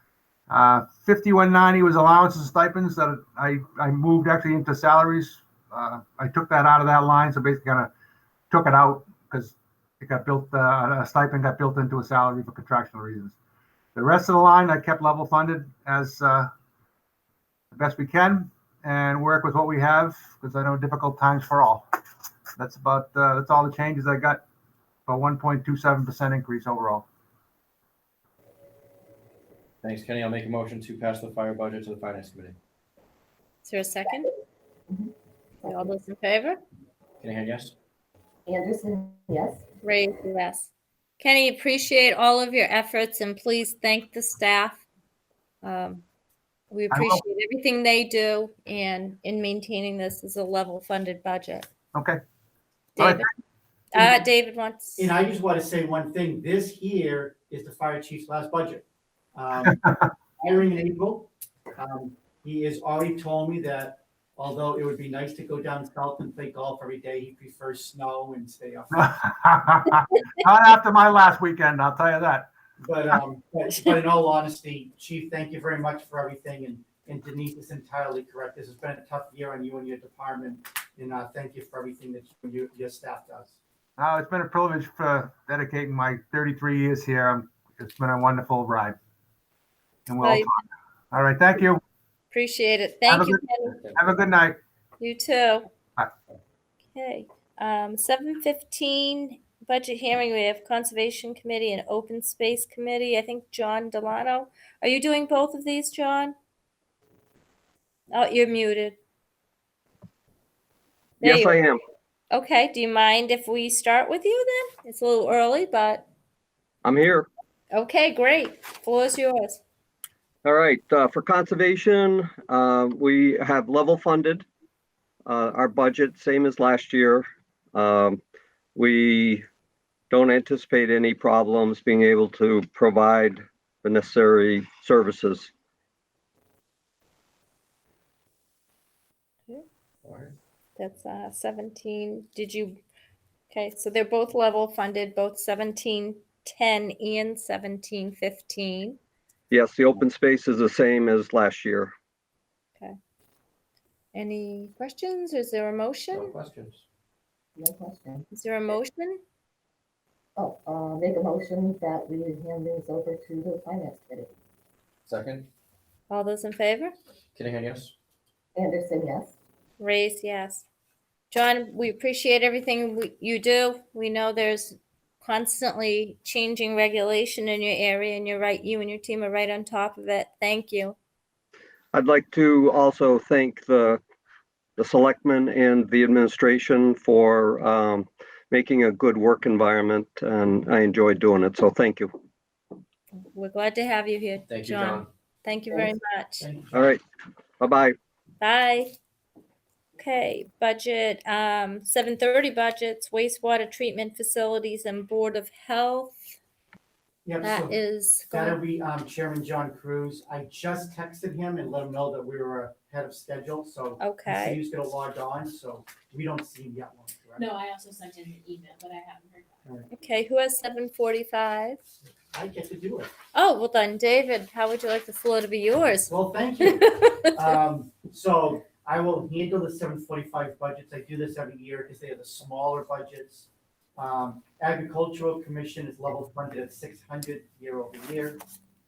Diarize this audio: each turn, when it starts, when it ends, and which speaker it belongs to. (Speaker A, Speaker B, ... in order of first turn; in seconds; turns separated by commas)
Speaker A: 0.5-7.9, Speaker A: 8.5-13.4, Speaker A: 13.9-16.5, Speaker A: 17.7-21.9, Speaker A: 22.6-24.4, Speaker A: 25.1-27.1, Speaker B: 29.8-32.6, Speaker C: 33.6-34.3, Speaker C: 35.6-36.6, Speaker B: 37.2-37.7, Speaker D: 38.5-39.6, Speaker C: 39.8-40.7, Speaker C: 41.2-44.8, Speaker C: 45.6-46.0, Speaker C: 46.7-51.7, Speaker A: 46.9-47.2, Speaker A: 52.0-52.2, Speaker C: 53.0-53.3, Speaker A: 53.0-53.2, Speaker C: 53.9-55.1, Speaker E: 54.0-54.2, Speaker E: 55.0-58.8, Speaker E: 59.4-69.1, Speaker A: 68.9-72.5, Speaker E: 72.8-83.6, Speaker A: 84.0-89.0, Speaker A: 90.1-90.5, Speaker C: 90.2-90.5, Speaker A: 91.1-91.8, Speaker C: 92.3-93.7, Speaker A: 93.1-93.4, Speaker B: 93.7-94.2, Speaker A: 93.9-94.6, Speaker C: 95.0-95.7, Speaker C: 96.9-106.3, Speaker C: 108.1-109.0, Speaker C: 111.2-111.6, Speaker F: 111.2-111.8, Speaker C: 112.3-116.1, Speaker F: 116.8-117.3, Speaker C: 117.7-119.6, Speaker F: 120.4-124.5, Speaker F: 125.3-128.2, Speaker F: 128.8-129.5, Speaker F: 130.1-135.5, Speaker B: 140.0-140.4, Speaker C: 140.8-142.8, Speaker C: 143.5-149.0, Speaker F: 149.5-151.9, Speaker C: 154.1-156.3, Speaker B: 156.1-156.8, Speaker D: 157.6-158.3, Speaker C: 158.3-159.2, Speaker D: 160.4-164.3, Speaker B: 165.1-165.5, Speaker C: 166.1-166.9, Speaker B: 167.3-167.9, Speaker D: 168.6-169.4, Speaker C: 169.8-170.7, Speaker C: 171.3-181.0, Speaker F: 181.9-184.0, Speaker F: 184.8-192.1, Speaker C: 193.2-196.5, Speaker B: 194.5-195.1, Speaker E: 196.4-197.0, Speaker F: 196.7-197.0, Speaker F: 197.6-198.0, Speaker C: 198.4-198.9, Speaker C: 200.0-206.2, Speaker E: 207.2-207.8, Speaker C: 207.4-208.6, Speaker E: 208.3-217.5, Speaker C: 214.0-214.6, Speaker G: 217.4-219.6, Speaker C: 219.9-221.8, Speaker E: 222.3-223.1, Speaker C: 223.3-227.3, Speaker E: 226.1-238.4